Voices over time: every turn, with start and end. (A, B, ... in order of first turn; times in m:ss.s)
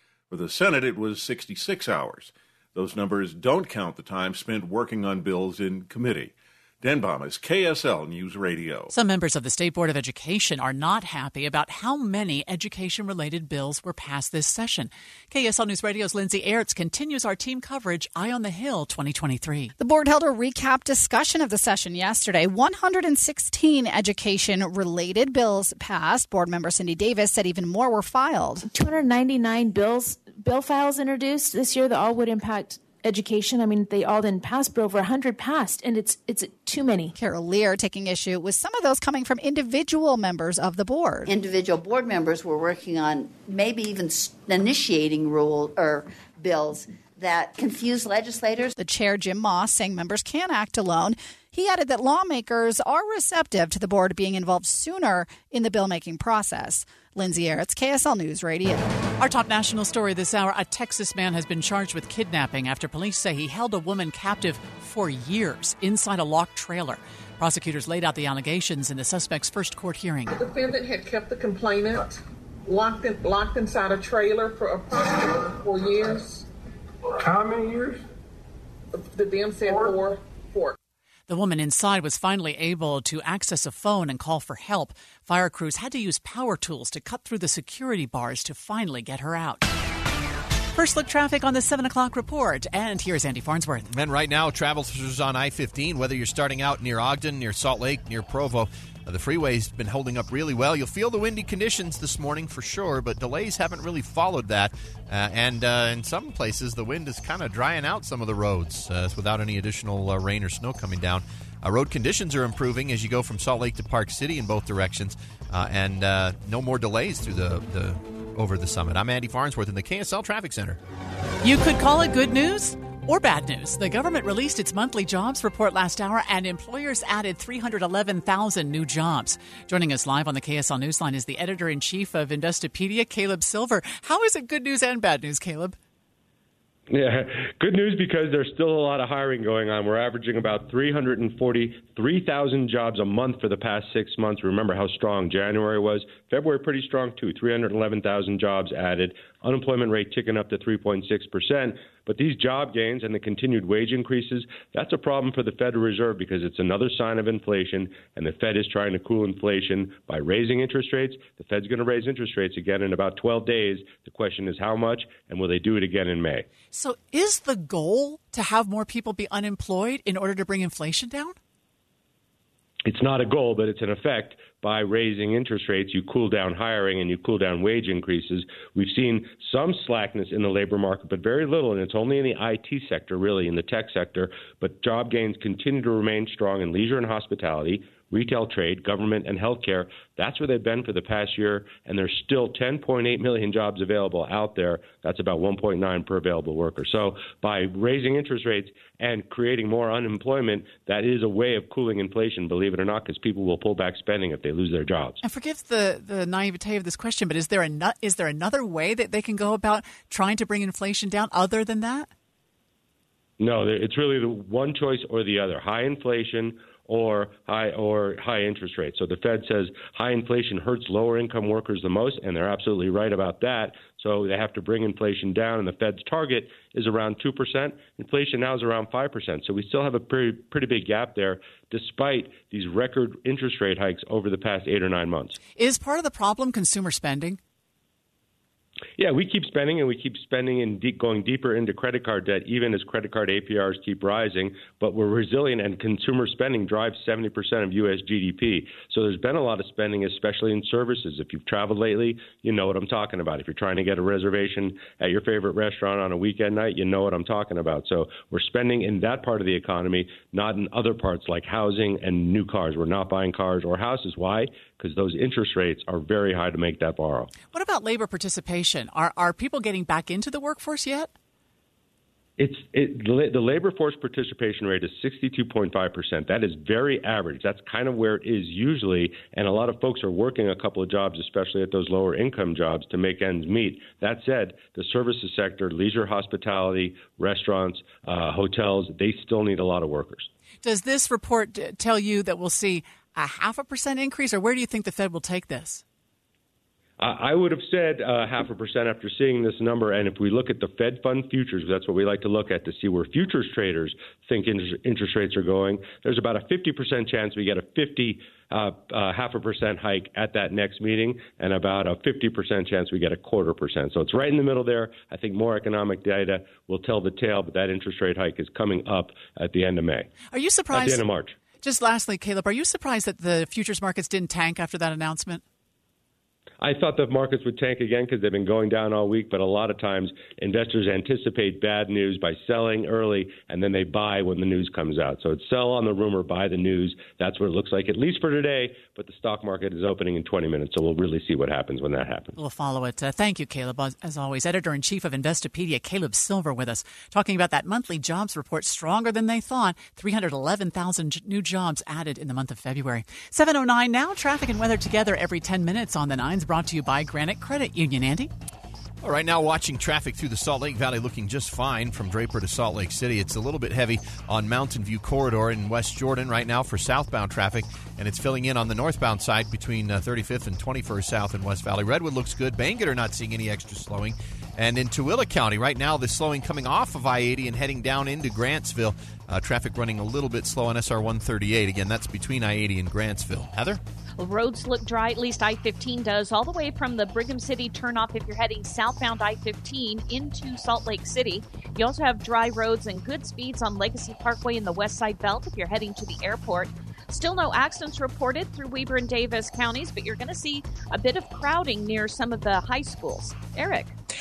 0:00.3-0:08.9 A
0:08.9-0:19.7 B
0:19.8-0:28.7 C
0:28.7-0:37.1 D
0:37.1-0:41.3 C
0:41.3-0:48.8 E
0:48.8-0:58.9 C
0:59.2-1:10.4 B
1:10.3-1:16.5 F
1:18.9-1:20.8 F
1:21.3-1:29.7 B
1:30.8-1:33.9 B
1:33.9-2:00.8 G
2:01.4-2:15.8 B
2:16.9-2:46.4 H
2:46.7-2:51.4 B
2:52.8-3:25.2 H
3:25.2-3:32.1 B
3:33.4-3:55.4 H
3:55.6-3:57.4 B
3:59.0-4:27.3 H
4:27.5-4:31.1 B
4:32.4-4:50.3 H
4:50.6-4:55.8 B
4:57.0-5:20.1 H
5:20.3-5:21.0 B
5:20.7-5:21.4 H
5:21.6-5:25.4 B
5:26.6-5:42.4 H
5:42.4-5:58.3 B
5:59.0-6:23.8 G
6:24.2-6:43.9 I